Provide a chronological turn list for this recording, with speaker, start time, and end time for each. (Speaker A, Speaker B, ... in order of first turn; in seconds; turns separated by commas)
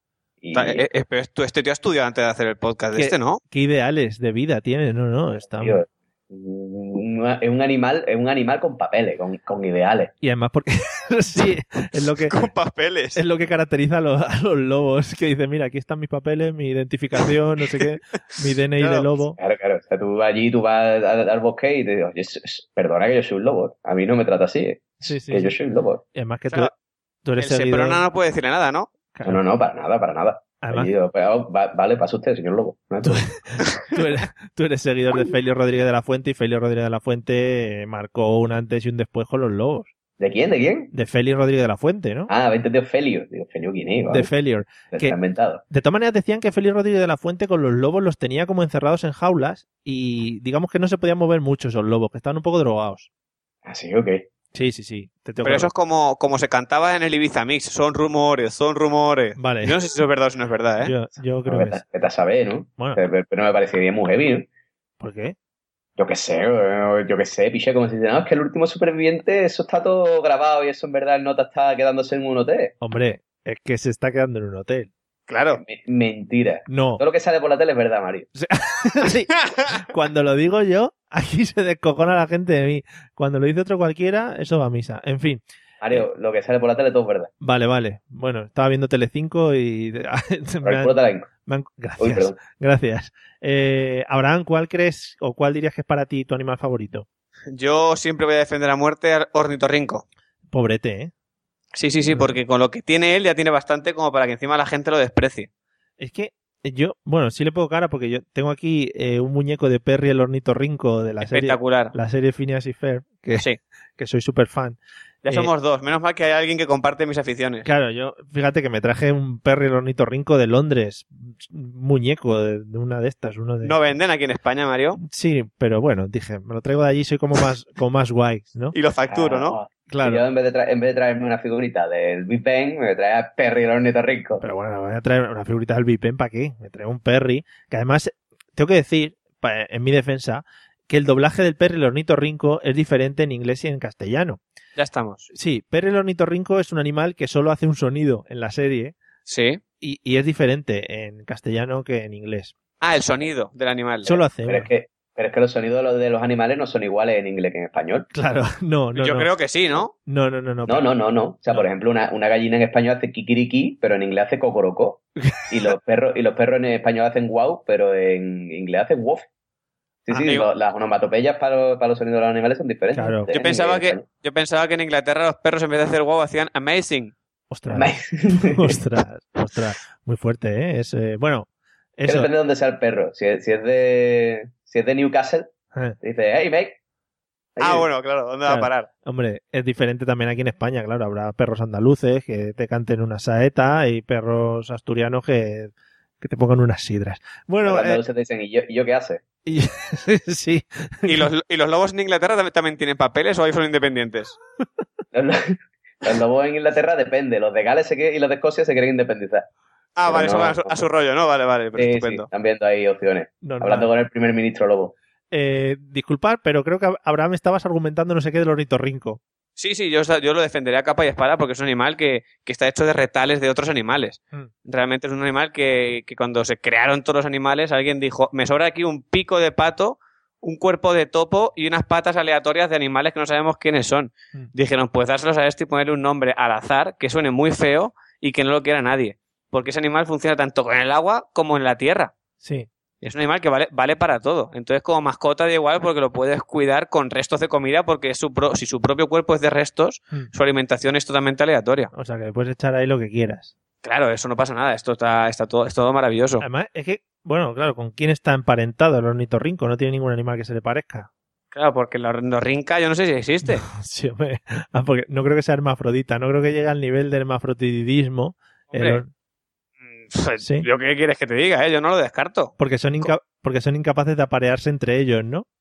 Speaker A: 0.4-0.8, Speaker B: 0.5-3.4, Speaker C: 2.9-5.8, Speaker A: 5.6-10.1, Speaker C: 10.2-12.3, Speaker B: 12.3-13.2, Speaker C: 13.1-19.4, Speaker B: 18.8-19.1, Speaker A: 19.4-26.0, Speaker C: 25.0-25.5, Speaker C: 26.1-26.7, Speaker C: 27.2-28.0, Speaker B: 27.4-28.9, Speaker C: 29.1-29.4, Speaker A: 29.2-33.3, Speaker C: 30.6-30.9, Speaker C: 33.0-39.9, Speaker A: 40.2-40.9, Speaker C: 40.9-42.3, Speaker A: 42.3-44.3, Speaker C: 44.1-45.2, Speaker A: 44.9-45.6, Speaker C: 45.7-53.1, Speaker A: 53.6-54.2, Speaker C: 54.5-55.7, Speaker B: 55.4-60.9, Speaker C: 59.4-59.8, Speaker C: 60.8-61.8, Speaker A: 61.5-64.5, Speaker C: 65.0-65.3, Speaker A: 66.0-72.7, Speaker C: 72.8-74.9, Speaker B: 75.3-75.6, Speaker A: 75.5-78.3, Speaker C: 76.7-77.0, Speaker C: 78.3-86.0, Speaker A: 85.8-87.3, Speaker C: 87.4-90.9, Speaker A: 90.6-91.3, Speaker C: 91.5-97.0, Speaker A: 92.0-92.4, Speaker B: 97.5-100.0, Speaker C: 100.5-101.1, Speaker B: 101.7-105.5, Speaker C: 102.0-102.4, Speaker C: 106.0-113.5, Speaker B: 111.2-111.9, Speaker C: 114.0-115.5, Speaker B: 115.2-117.7, Speaker C: 117.6-123.8, Speaker B: 123.6-125.0, Speaker C: 125.0-128.8, Speaker B: 128.7-129.6, Speaker A: 129.1-134.4, Speaker C: 129.9-130.2, Speaker C: 134.4-144.4, Speaker B: 144.8-145.3, Speaker C: 145.3-148.9, Speaker B: 149.3-149.6, Speaker C: 149.8-152.5, Speaker B: 152.8-154.2, Speaker C: 154.0-154.7, Speaker A: 154.4-158.1, Speaker C: 158.1-159.3, Speaker B: 158.9-159.9, Speaker C: 159.9-160.8, Speaker A: 160.7-169.2, Speaker C: 165.2-165.7, Speaker A: 170.1-174.0, Speaker B: 170.2-170.5, Speaker C: 172.9-173.3, Speaker B: 173.3-177.1, Speaker C: 177.5-182.3, Speaker A: 177.7-178.8, Speaker A: 182.1-185.5, Speaker A: 186.0-186.8, Speaker A: 187.6-187.9, Speaker B: 187.6-188.9, Speaker C: 188.4-198.0, Speaker A: 197.6-199.2, Speaker C: 199.4-201.3, Speaker B: 201.1-204.4, Speaker A: 205.1-209.5, Speaker B: 210.0-212.3, Speaker A: 210.1-210.8, Speaker A: 211.8-214.9, Speaker C: 213.4-213.9, Speaker C: 215.3-219.2, Speaker B: 219.6-242.1, Speaker C: 242.4-242.7, Speaker B: 243.0-251.9, Speaker C: 251.9-253.5, Speaker B: 253.8-256.4, Speaker C: 256.4-261.1, Speaker B: 261.5-263.6, Speaker C: 263.4-269.1, Speaker B: 268.7-269.0, Speaker B: 269.9-273.1, Speaker C: 270.4-270.7, Speaker C: 272.6-275.4